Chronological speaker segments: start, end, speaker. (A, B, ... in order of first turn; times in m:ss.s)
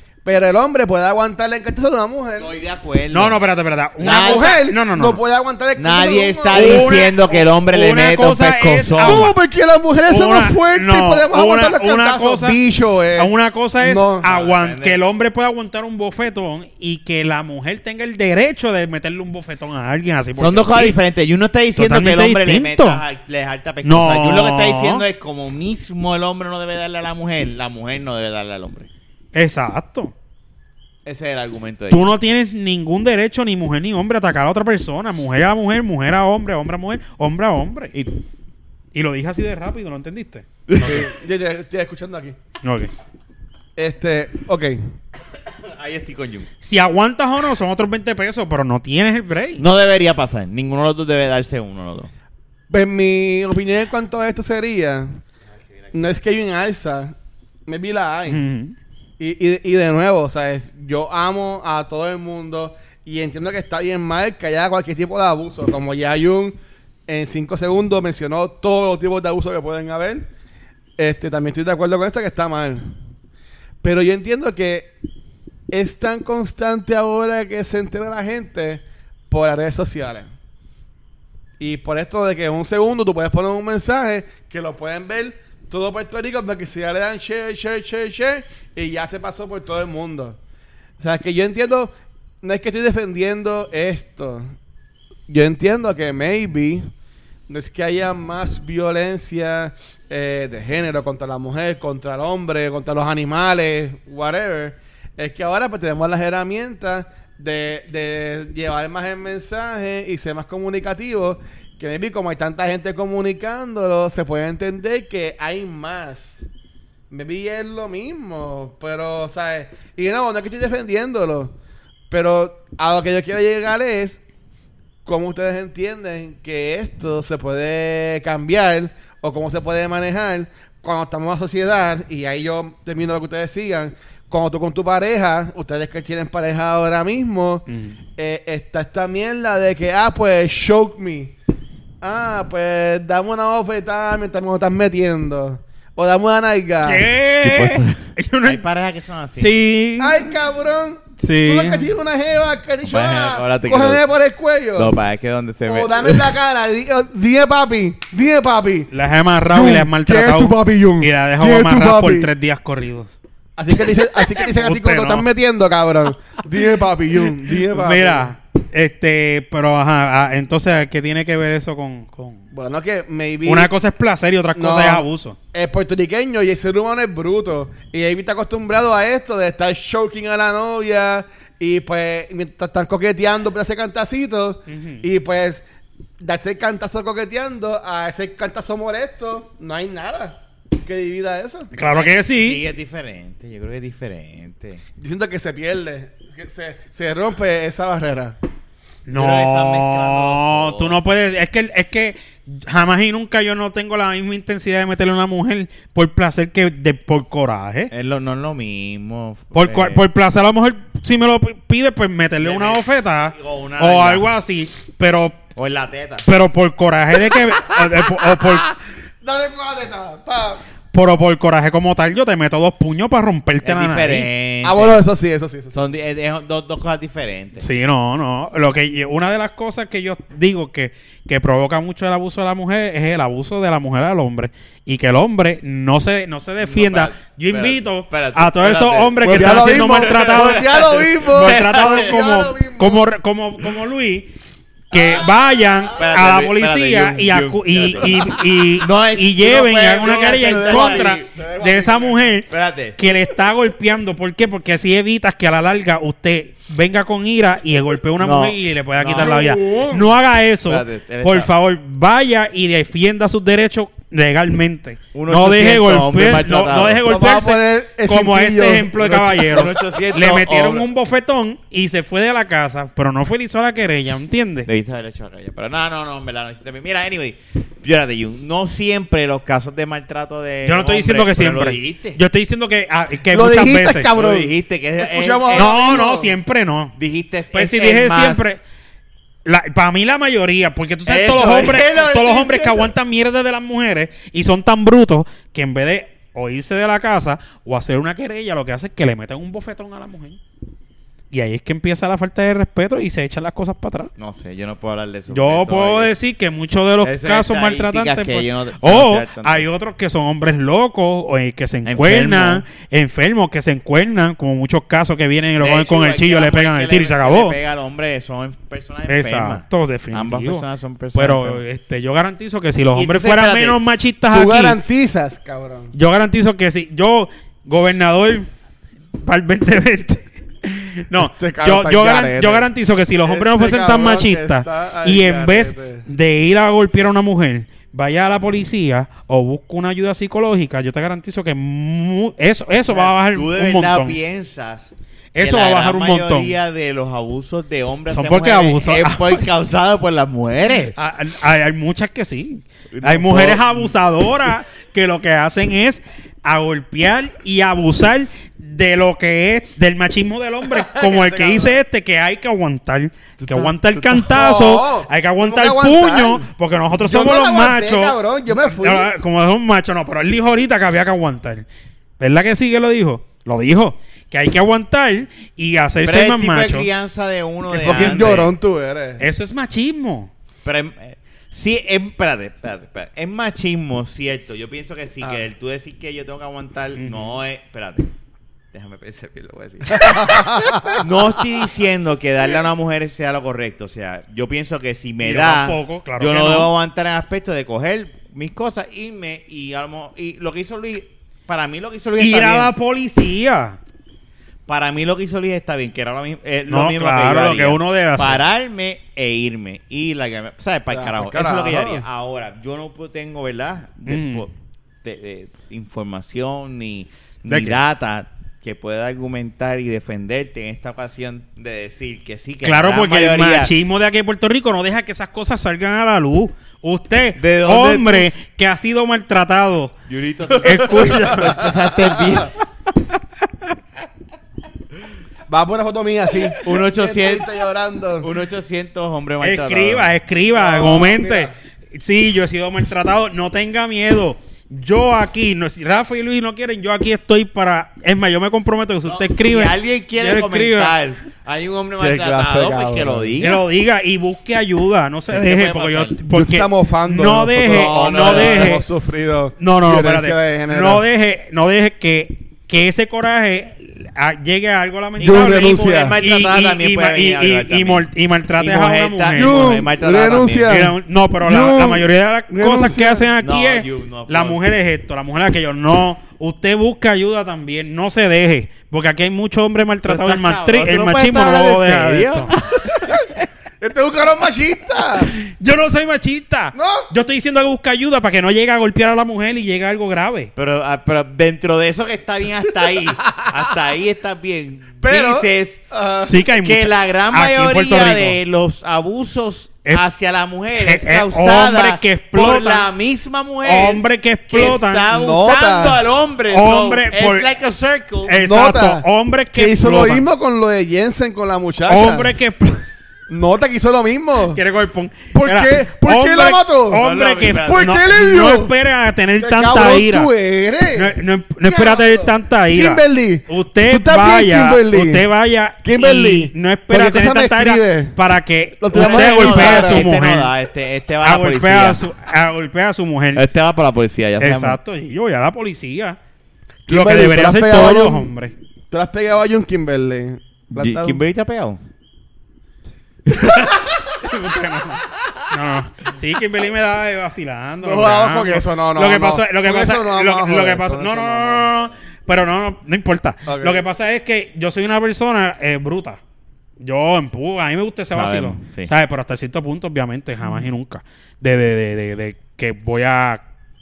0:00.2-0:02.5 A
0:02.4-0:03.4 B
0:03.1-0:05.2 C
0:04.0-0:04.6 B
0:04.0-0:07.0 A
0:05.8-0:09.3 B
0:06.5-0:09.3 C
0:09.0-0:14.2 A
0:10.1-0:12.6 C
0:13.2-0:21.0 C
0:14.2-0:15.0 B
0:20.4-0:28.9 B
0:21.8-0:23.0 C
0:23.8-0:25.0 C
0:29.3-0:30.1 C
0:31.0-0:32.1 B
0:31.9-0:37.9 C
0:38.9-0:40.4 C
0:40.7-0:41.1 B
0:40.8-0:42.4 A
0:42.6-0:42.9 C
0:43.8-0:44.9 A
0:45.7-0:46.5 B
0:46.6-0:49.6 C
0:49.6-0:52.1 B
0:52.7-0:55.1 A
0:55.9-0:57.1 A
0:57.7-0:58.4 A
0:58.3-0:58.7 C
0:59.2-1:10.3 A
1:11.0-1:12.9 A
1:13.8-1:14.9 A
1:15.7-1:20.3 A
1:21.6-1:30.4 A
1:31.0-1:34.5 A
1:35.3-1:36.9 A
1:37.5-1:56.5 A
1:57.1-2:01.5 A
2:02.1-2:04.2 A
2:05.0-2:17.6 A
2:17.7-2:18.0 C
2:18.2-2:21.3 A
2:22.0-2:27.1 A
2:26.8-2:28.6 C
2:27.4-2:29.5 B
2:29.4-2:30.3 C
2:30.0-2:34.9 A
2:31.2-2:31.9 C
2:32.8-2:34.0 B
2:34.8-2:36.3 B
2:35.6-2:38.9 A
2:38.9-2:43.2 C
2:39.5-2:42.3 A
2:43.6-2:48.3 A
2:43.7-2:45.2 C
2:47.3-2:52.4 C
2:52.5-2:53.7 A
2:53.4-2:55.4 C
2:54.5-3:05.6 A
3:04.7-3:05.0 C
3:06.2-3:11.7 A
3:11.7-3:12.6 C
3:11.8-3:14.8 B
3:15.0-3:18.4 A
3:19.0-3:27.9 C
3:19.1-3:21.0 B
3:27.9-3:30.0 B
3:29.5-3:35.4 C
3:32.4-3:34.3 B
3:35.6-3:36.3 B
3:36.2-3:38.7 C
3:37.8-3:40.6 A
3:40.9-3:44.3 C
3:43.6-3:45.0 B
3:44.6-3:45.8 A
3:45.7-3:47.6 B
3:47.6-4:04.3 C
3:56.6-4:02.2 B
3:59.2-4:03.0 A
4:04.9-4:34.7 C
4:04.9-4:05.2 A
4:06.0-4:11.3 B
4:10.0-4:12.4 A
4:12.5-4:13.0 B
4:18.2-4:19.4 B
4:19.1-4:20.1 A
4:20.6-4:21.5 B
4:25.1-4:27.0 B
4:27.0-4:29.8 A
4:29.5-4:30.9 B
4:34.6-4:42.2 B
4:40.6-4:44.1 C
4:43.3-4:46.3 A
4:44.1-4:45.7 B
4:45.5-4:46.9 C
4:47.0-4:48.5 B
4:47.5-4:48.6 C
4:49.4-5:00.4 C
4:51.0-4:52.9 B
5:01.3-5:04.1 C
5:04.2-5:06.1 B
5:05.3-5:17.6 C
5:07.0-5:09.7 B
5:11.8-5:12.6 B
5:15.6-5:21.6 B
5:19.1-5:24.8 C
5:22.9-5:23.8 B
5:24.3-5:25.9 A
5:25.9-5:28.5 C
5:29.2-5:44.2 C
5:31.2-5:32.7 A
5:33.2-5:36.0 A
5:42.9-5:50.9 B
5:45.3-5:46.5 C
5:48.1-5:49.5 C
5:50.9-6:11.6 C
5:52.9-5:53.9 B
6:00.7-6:01.8 A
6:03.4-6:04.1 B
6:04.1-6:09.1 A
6:12.2-6:16.9 C
6:16.0-6:18.5 B
6:17.7-6:19.2 A
6:19.2-6:20.3 C
6:20.6-6:28.1 B
6:27.0-6:27.4 C
6:28.7-6:42.7 B
6:29.9-6:31.1 A
6:35.2-6:36.7 C
6:42.2-6:43.8 C
6:44.7-6:54.5 B
6:46.7-6:48.4 C
6:50.9-6:52.0 A
6:54.1-6:54.4 C
6:55.0-7:03.7 B
6:57.4-6:57.8 C
7:02.6-7:09.9 C
7:07.4-7:08.3 B
7:10.1-7:12.5 B
7:10.5-7:11.9 C
7:10.9-7:11.4 A
7:15.5-7:18.3 A
7:16.6-7:17.5 B
7:18.2-7:20.1 B
7:19.4-7:31.0 C
7:20.5-7:21.5 A
7:29.0-7:33.6 B
7:32.0-7:33.4 A
7:33.4-7:38.8 C
7:35.3-7:36.2 B
7:36.3-7:41.0 A
7:37.7-7:38.8 B
7:39.6-7:49.8 C
7:45.2-7:50.8 B
7:45.2-7:46.2 A
7:49.4-7:53.3 A
7:50.7-8:02.5 C
7:53.4-7:54.6 B
8:00.0-8:03.1 B
8:03.8-8:05.3 A
8:05.2-8:10.5 C
8:06.7-8:07.1 A
8:10.6-8:15.8 B
8:15.0-8:16.4 A
8:16.3-8:18.4 C
8:16.6-8:28.4 B
8:20.8-8:22.9 C
8:23.6-8:25.0 C
8:25.1-8:26.0 A
8:26.5-8:27.5 C
8:28.2-8:30.2 C
8:28.4-8:32.3 A
8:31.9-8:32.8 C
8:33.3-8:34.6 A
8:34.5-8:40.3 C
8:35.3-8:37.1 A
8:36.9-8:38.0 B
8:37.6-8:38.7 A
8:39.4-8:45.3 A
8:40.9-8:50.5 C
8:45.8-8:48.2 A
8:48.8-8:50.1 A
8:48.9-8:52.0 B
8:51.2-8:53.4 C
8:53.3-8:54.8 B
8:54.4-8:56.2 C
8:56.9-8:58.3 A
8:56.9-8:58.5 C
8:58.9-9:01.2 A
9:00.8-9:01.8 B
9:03.3-9:16.2 C
9:07.8-9:11.8 A
9:13.4-9:13.8 A
9:16.8-9:23.4 C
9:18.1-9:18.9 B